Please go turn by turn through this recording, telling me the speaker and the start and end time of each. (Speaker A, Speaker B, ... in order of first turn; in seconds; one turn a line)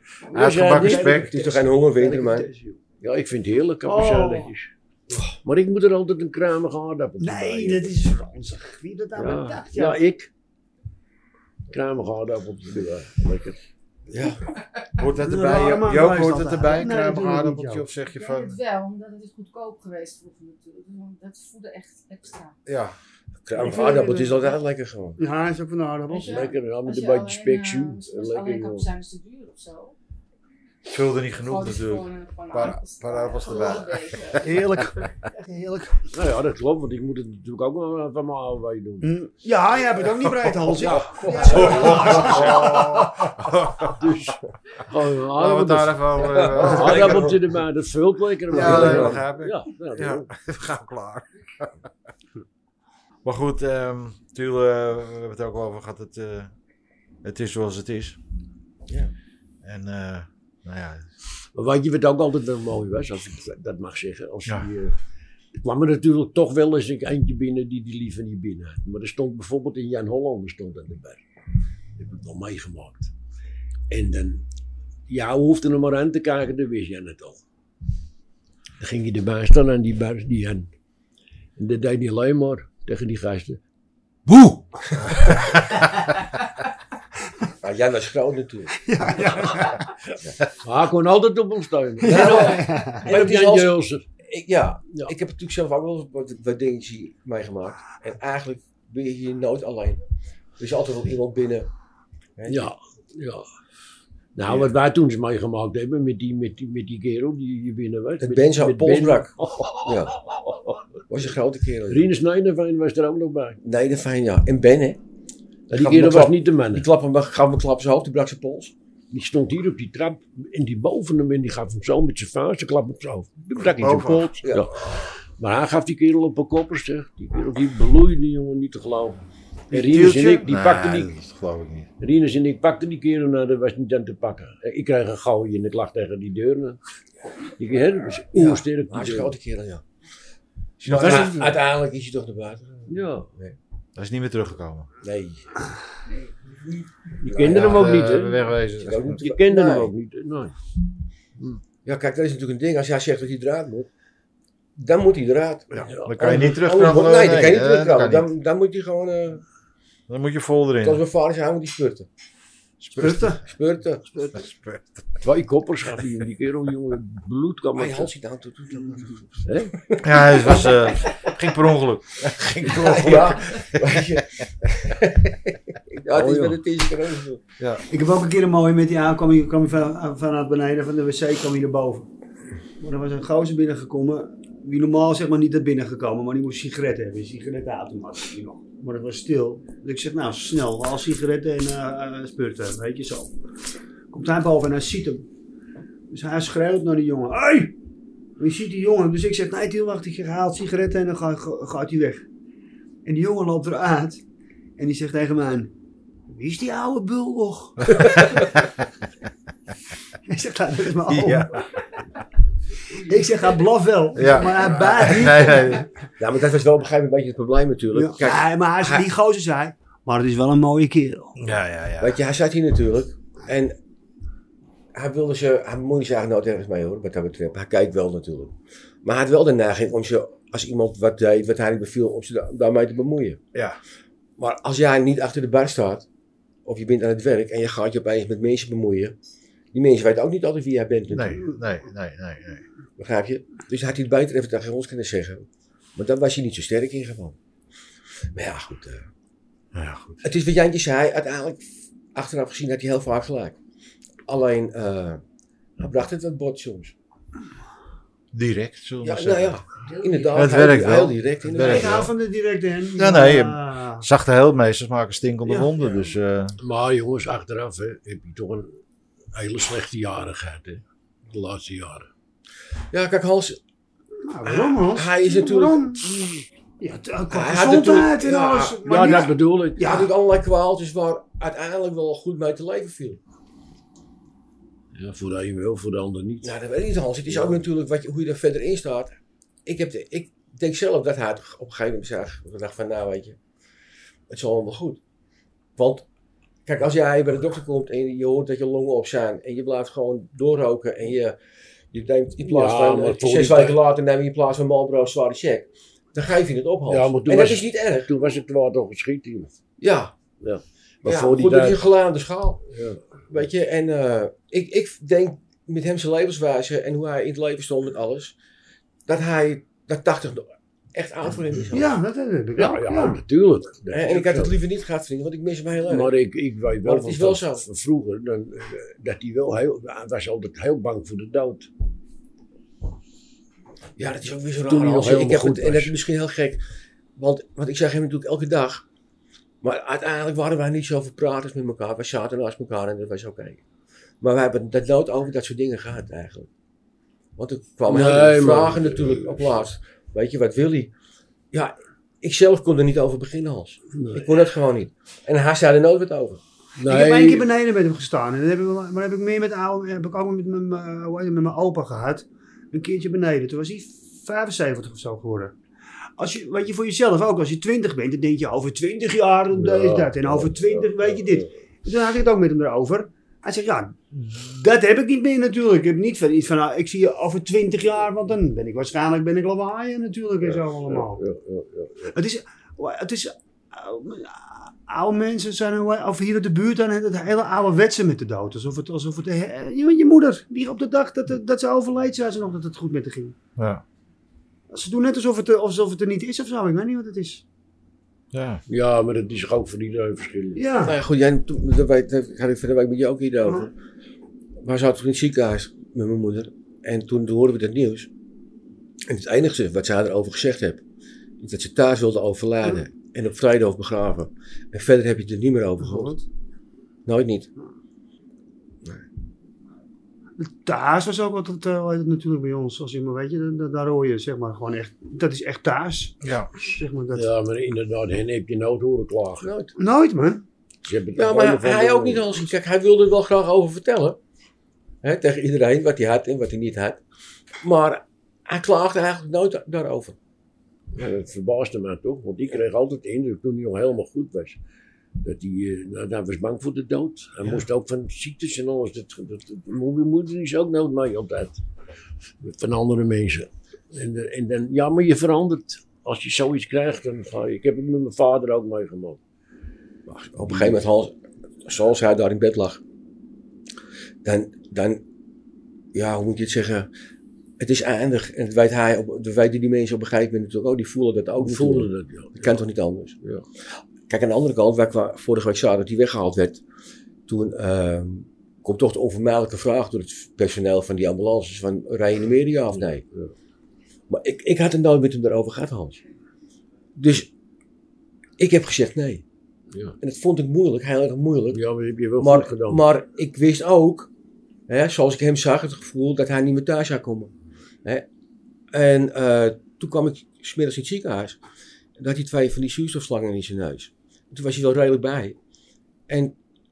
Speaker A: 0.3-1.2
Speaker B: 0.3-1.3
Speaker C: 0.7-2.8
Speaker D: 1.1-2.5
Speaker A: 3.0-4.7
Speaker C: 3.9-4.5
Speaker A: 5.4-7.9
Speaker C: 7.2-10.0
Speaker A: 9.2-10.3
Speaker A: 11.7-13.6
Speaker D: 14.1-14.4
Speaker B: 14.9-18.6
Speaker C: 15.1-17.8
Speaker E: 18.1-22.6
Speaker B: 22.6-22.9
Speaker D: 23.4-25.2
Speaker C: 23.6-24.5
Speaker C: 25.2-26.5
Speaker A: 26.1-28.9
Speaker E: 26.1-29.9
Speaker B: 30.9-35.0
Speaker E: 31.4-34.5
Speaker C: 34.4-36.0
Speaker A: 36.1-39.1
Speaker C: 39.0-43.3
Speaker A: 40.6-42.6
Speaker D: 40.7-42.7
Speaker B: 41.5-44.0
Speaker A: 43.8-50.3
Speaker B: 45.3-47.4
Speaker D: 46.2-47.4
Speaker B: 48.5-51.7
Speaker C: 48.5-49.2
Speaker D: 48.7-49.1
Speaker B: 53.2-56.5
Speaker B: 57.2-58.2
Speaker B: 59.6-61.1
Speaker A: 61.5-64.9
Speaker A: 65.6-71.2
Speaker A: 72.0-73.1
Speaker A: 73.9-74.4
Speaker A: 75.1-77.4
Speaker A: 78.8-80.7
Speaker A: 81.6-83.6
Speaker D: 87.6-88.8
Speaker C: 88.8-89.9
Speaker A: 90.5-94.0
Speaker C: 92.0-93.1
Speaker D: 92.0-100.0
Speaker D: 100.6-101.7
Speaker D: 102.4-102.7
Speaker A: 102.5-103.5
Speaker A: 104.3-110.8
Speaker D: 108.2-110.2
Speaker D: 111.1-112.1
Speaker A: 111.9-113.6
Speaker D: 113.6-115.0
Speaker D: 115.7-118.7
Speaker A: 115.7-116.8
Speaker A: 119.1-131.1
Speaker B: 123.8-124.3
Speaker D: 124.4-124.7
Speaker B: 129.7-131.9
Speaker A: 132.0-136.8
Speaker A: 137.6-139.3
Speaker D: 138.3-139.8
Speaker B: 140.8-141.4
Speaker D: 140.8-143.6
Speaker A: 140.9-141.6
Speaker A: 142.9-143.3
Speaker B: 143.9-144.9
Speaker D: 145.0-145.5
Speaker A: 147.2-150.5
Speaker D: 147.2-147.9
Speaker B: 147.4-149.2
Speaker D: 148.8-149.9
Speaker D: 151.8-153.9
Speaker D: 154.8-159.4
Speaker B: 155.7-158.3
Speaker A: 155.8-156.2
Speaker B: 160.1-161.0
Speaker D: 160.8-162.1
Speaker B: 162.8-163.4
Speaker C: 163.0-163.4
Speaker D: 163.4-164.1
Speaker B: 164.3-165.2
Speaker A: 165.2-168.1
Speaker D: 167.7-170.9
Speaker A: 169.4-169.7
Speaker B: 170.0-174.4
Speaker D: 172.6-177.4
Speaker A: 172.8-173.2
Speaker A: 176.1-176.6
Speaker B: 177.6-177.8
Speaker C: 177.9-182.1
Speaker C: 182.8-193.3
Speaker C: 194.1-195.2
Speaker C: 196.1-197.7
Speaker C: 198.4-202.2
Speaker C: 203.0-204.2
Speaker C: 204.8-205.7
Speaker C: 206.3-208.5
Speaker C: 210.2-211.6
Speaker B: 211.1-211.6
Speaker C: 212.9-215.9
Speaker B: 214.1-215.9
Speaker D: 216.2-219.1
Speaker C: 217.9-221.3
Speaker B: 221.3-222.2
Speaker D: 222.0-223.7
Speaker D: 224.9-233.4
Speaker D: 234.4-236.1
Speaker D: 236.7-239.1
Speaker D: 239.7-241.5
Speaker B: 241.1-242.6
Speaker D: 243.0-247.4
Speaker D: 248.3-249.1
Speaker B: 249.7-250.2
Speaker D: 250.2-253.6
Speaker D: 254.3-255.2
Speaker D: 255.8-256.9
Speaker B: 258.3-259.6
Speaker D: 259.0-262.1
Speaker C: 259.9-260.3
Speaker B: 260.3-262.1
Speaker C: 261.6-264.1
Speaker B: 263.0-266.6
Speaker C: 265.4-266.1
Speaker A: 266.6-268.7
Speaker A: 269.3-272.1
Speaker D: 272.9-273.6
Speaker C: 274.2-276.1
Speaker D: 274.4-276.1
Speaker C: 276.8-280.1
Speaker D: 277.3-283.2
Speaker A: 278.8-279.9
Speaker A: 284.9-286.5
Speaker D: 286.4-289.1
Speaker A: 287.3-287.6
Speaker D: 289.6-293.4
Speaker D: 294.3-295.0
Speaker D: 295.8-296.1
Speaker D: 296.6-301.4
Speaker D: 301.9-308.1
Speaker A: 302.4-303.8
Speaker A: 306.9-309.5
Speaker D: 309.8-310.1
Speaker A: 310.4-311.9
Speaker D: 311.0-312.6
Speaker A: 312.7-313.2
Speaker D: 313.3-318.4
Speaker D: 319.1-321.9
Speaker C: 321.7-323.2
Speaker A: 322.6-324.5
Speaker D: 323.9-326.1
Speaker A: 325.8-331.7
Speaker D: 326.8-327.6
Speaker D: 334.0-336.6
Speaker A: 334.7-335.9
Speaker D: 337.1-338.8
Speaker D: 339.6-343.6
Speaker D: 344.2-346.5
Speaker D: 347.4-350.9
Speaker A: 347.9-349.6
Speaker D: 351.5-356.4
Speaker A: 353.9-354.3
Speaker A: 356.8-357.5
Speaker C: 356.8-365.6
Speaker C: 366.2-381.2
Speaker A: 369.5-371.5
Speaker A: 380.4-382.1
Speaker C: 382.1-393.3
Speaker B: 393.6-393.8
Speaker C: 394.7-397.4
Speaker B: 398.3-398.6
Speaker A: 398.7-400.6
Speaker C: 400.6-400.9
Speaker D: 400.8-403.7
Speaker D: 404.6-408.1
Speaker D: 409.1-410.8
Speaker D: 411.4-416.1
Speaker C: 415.8-416.2
Speaker D: 417.1-417.5
Speaker C: 420.4-427.3
Speaker B: 426.2-426.5
Speaker A: 427.1-429.5
Speaker D: 429.4-429.7
Speaker C: 429.8-430.4
Speaker A: 430.8-432.3
Speaker D: 431.1-434.2
Speaker D: 435.0-437.0
Speaker D: 437.6-440.2
Speaker A: 440.9-444.6
Speaker A: 445.2-451.6
Speaker A: 452.4-459.2
Speaker D: 460.1-462.8
Speaker A: 460.5-460.8
Speaker D: 464.2-465.0
Speaker D: 465.9-466.9
Speaker D: 467.6-473.1
Speaker A: 471.4-472.6
Speaker D: 473.7-476.6
Speaker D: 477.3-483.0
Speaker A: 482.7-483.3
Speaker D: 484.1-486.0
Speaker D: 486.9-487.3
Speaker D: 488.4-489.2
Speaker D: 490.0-491.6
Speaker A: 491.5-492.8
Speaker D: 492.2-494.1
Speaker D: 494.7-497.3
Speaker D: 498.7-501.4
Speaker D: 502.0-505.4
Speaker D: 506.1-506.4